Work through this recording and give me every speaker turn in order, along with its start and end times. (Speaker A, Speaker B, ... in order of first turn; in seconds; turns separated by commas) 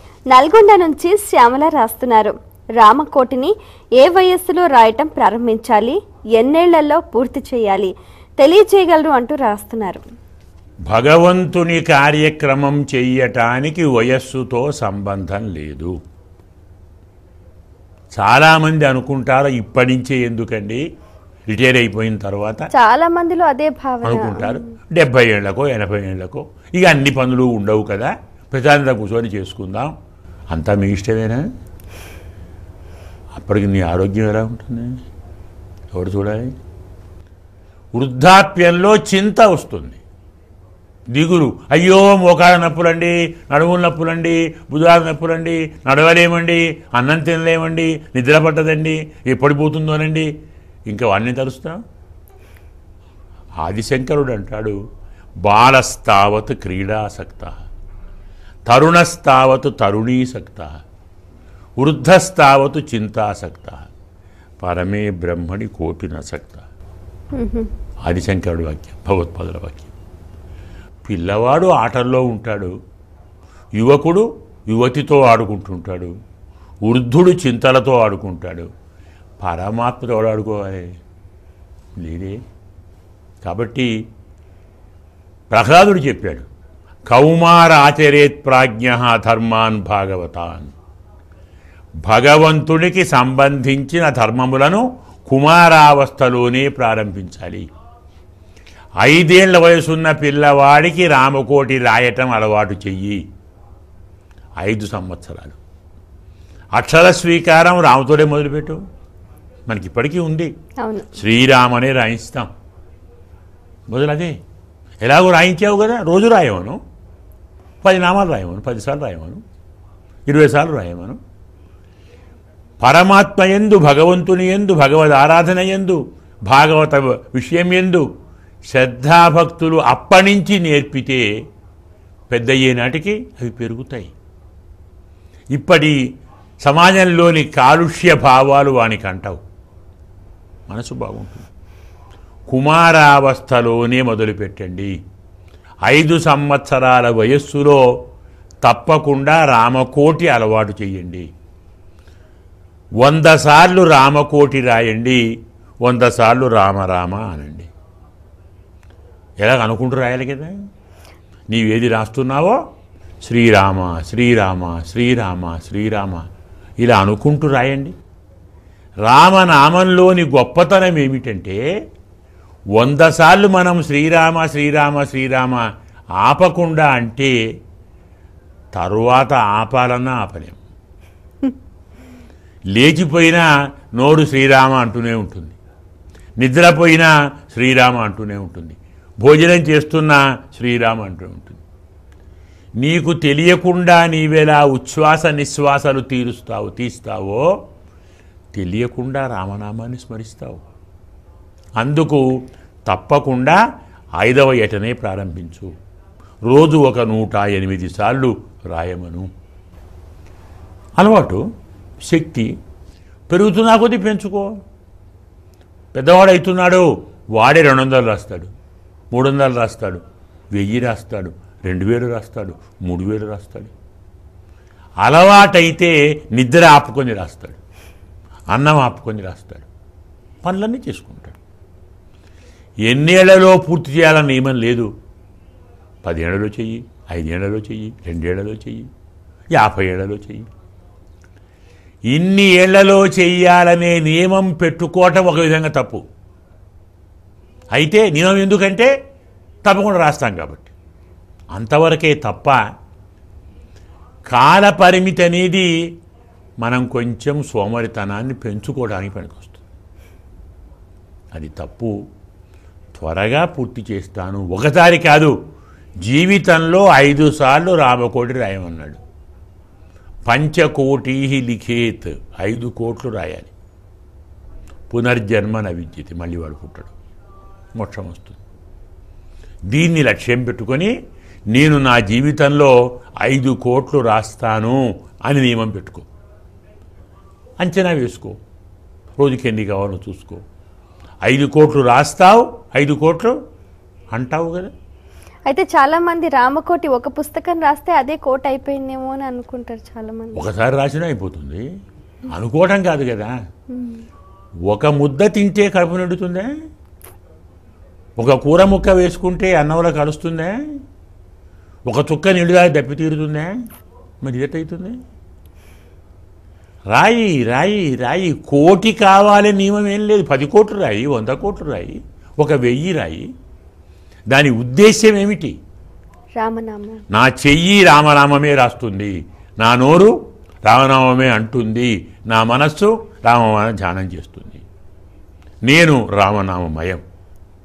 Speaker A: 0.3-10.0, Speaker B: 10.9-15.9, Speaker B: 18.1-20.8, Speaker B: 21.5-22.7, Speaker A: 22.7-24.7, Speaker B: 24.0-29.9, Speaker B: 30.5-31.4, Speaker B: 33.3-34.9, Speaker B: 35.9-36.5, Speaker B: 37.9-40.0, Speaker B: 41.1-50.3, Speaker B: 50.9-51.8, Speaker B: 53.6-54.8, Speaker B: 55.4-57.5, Speaker B: 58.7-60.7, Speaker B: 61.8-63.8, Speaker B: 64.6-66.7, Speaker A: 67.3-67.7, Speaker B: 68.0-69.9, Speaker B: 71.0-72.7, Speaker B: 73.8-76.1, Speaker B: 76.8-78.7, Speaker B: 79.4-80.9, Speaker B: 82.0-82.4, Speaker B: 83.4-83.9, Speaker B: 85.5-86.5, Speaker B: 87.1-90.7, Speaker B: 92.0-97.7, Speaker B: 99.0-103.2, Speaker B: 104.6-105.6, Speaker B: 106.7-108.8, Speaker B: 109.7-110.5, Speaker A: 110.8-111.1, Speaker B: 111.2-112.5, Speaker B: 113.9-114.4, Speaker B: 115.0-116.8, Speaker B: 117.8-119.4, Speaker B: 120.3-121.2, Speaker B: 122.8-128.0, Speaker B: 128.7-131.2, Speaker B: 132.3-134.1, Speaker B: 135.5-136.0, Speaker B: 136.6-139.4, Speaker B: 140.7-141.5, Speaker B: 142.5-144.9, Speaker B: 145.9-147.8, Speaker B: 148.6-151.3, Speaker B: 153.0-155.2, Speaker B: 155.8-157.7, Speaker B: 159.4-160.5, Speaker B: 161.5-162.6, Speaker B: 163.2-166.2, Speaker B: 166.8-167.9, Speaker B: 169.1-171.6, Speaker B: 172.8-175.6, Speaker B: 176.2-177.3, Speaker B: 178.7-180.6, Speaker B: 182.7-185.6, Speaker B: 186.4-191.6, Speaker B: 192.8-197.5, Speaker B: 198.5-200.6, Speaker B: 201.8-202.2, Speaker B: 202.9-203.6, Speaker B: 204.2-205.7, Speaker B: 206.5-209.2, Speaker B: 211.0-211.4, Speaker B: 212.0-212.5, Speaker B: 213.3-214.5, Speaker B: 215.9-218.5, Speaker B: 219.1-220.0, Speaker B: 220.5-223.7, Speaker B: 225.0-227.6, Speaker B: 228.5-229.7, Speaker B: 230.4-231.4, Speaker B: 232.8-234.9, Speaker B: 236.0-238.9, Speaker B: 239.5-240.4, Speaker B: 242.1-246.0, Speaker B: 247.7-248.9, Speaker B: 249.6-250.7, Speaker B: 251.5-252.6, Speaker B: 254.3-255.7, Speaker B: 256.6-259.6, Speaker B: 261.3-261.9, Speaker B: 262.9-265.3, Speaker B: 266.0-269.0, Speaker B: 270.3-273.5, Speaker B: 274.9-276.9, Speaker B: 277.7-278.4, Speaker B: 279.7-280.9, Speaker B: 281.5-286.1, Speaker B: 287.6-288.4, Speaker B: 289.2-290.4, Speaker B: 291.2-293.3, Speaker B: 294.1-294.7, Speaker A: 295.5-300.5, Speaker B: 300.3-301.6, Speaker B: 302.3-303.3, Speaker A: 303.7-304.0, Speaker B: 304.7-306.5, Speaker B: 308.2-310.6, Speaker B: 311.8-313.5, Speaker B: 314.2-315.0, Speaker B: 316.9-323.3, Speaker B: 324.3-325.6, Speaker A: 326.4-327.0, Speaker B: 327.1-330.1, Speaker B: 330.6-334.6, Speaker B: 335.6-337.0